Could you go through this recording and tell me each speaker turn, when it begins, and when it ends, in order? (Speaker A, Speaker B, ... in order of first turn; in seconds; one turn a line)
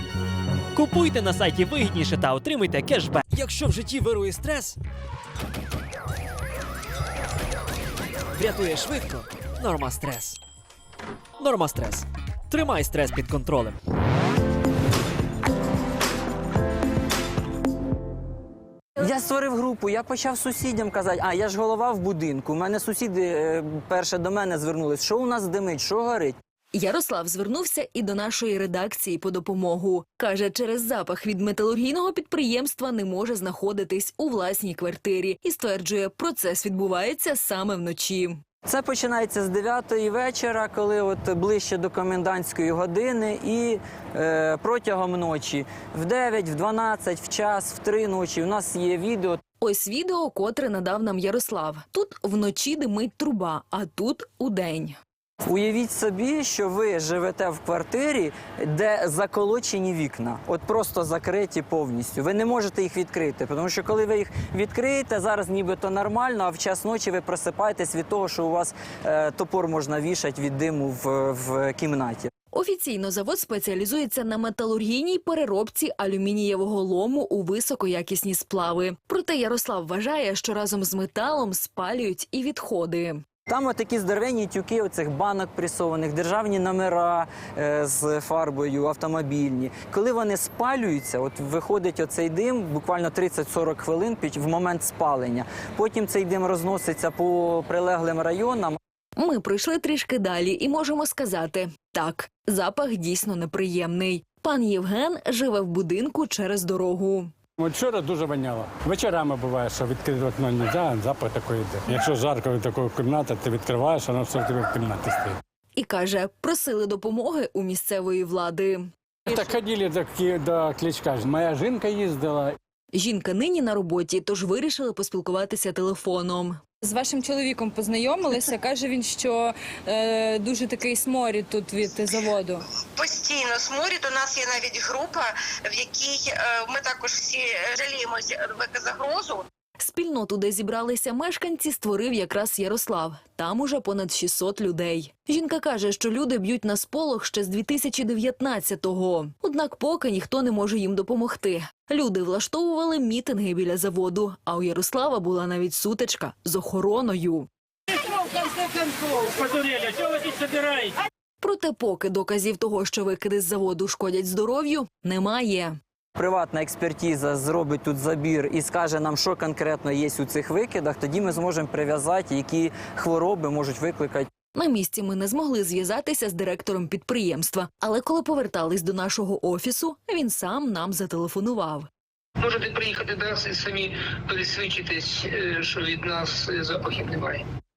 Speaker A: 0.7-4.8
Speaker A: 8.4-10.4
Speaker A: 11.4-13.8
Speaker B: 19.0-26.4
Speaker C: 26.7-38.4
Speaker B: 38.6-49.4
Speaker C: 49.6-55.0
Speaker B: 55.5-72.3
Speaker C: 72.5-83.2
Speaker B: 83.5-98.8
Speaker C: 99.2-107.3
Speaker D: 107.6-115.4
Speaker C: 115.8-118.9
Speaker D: 119.3-122.6
Speaker C: 122.9-126.6
Speaker E: 126.8-132.6
Speaker F: 132.8-139.4
Speaker C: 139.8-157.5
Speaker D: 159.2-160.8
Speaker C: 161.4-165.8
Speaker B: 166.2-174.3
Speaker C: 174.5-181.9
Speaker G: 182.4-187.4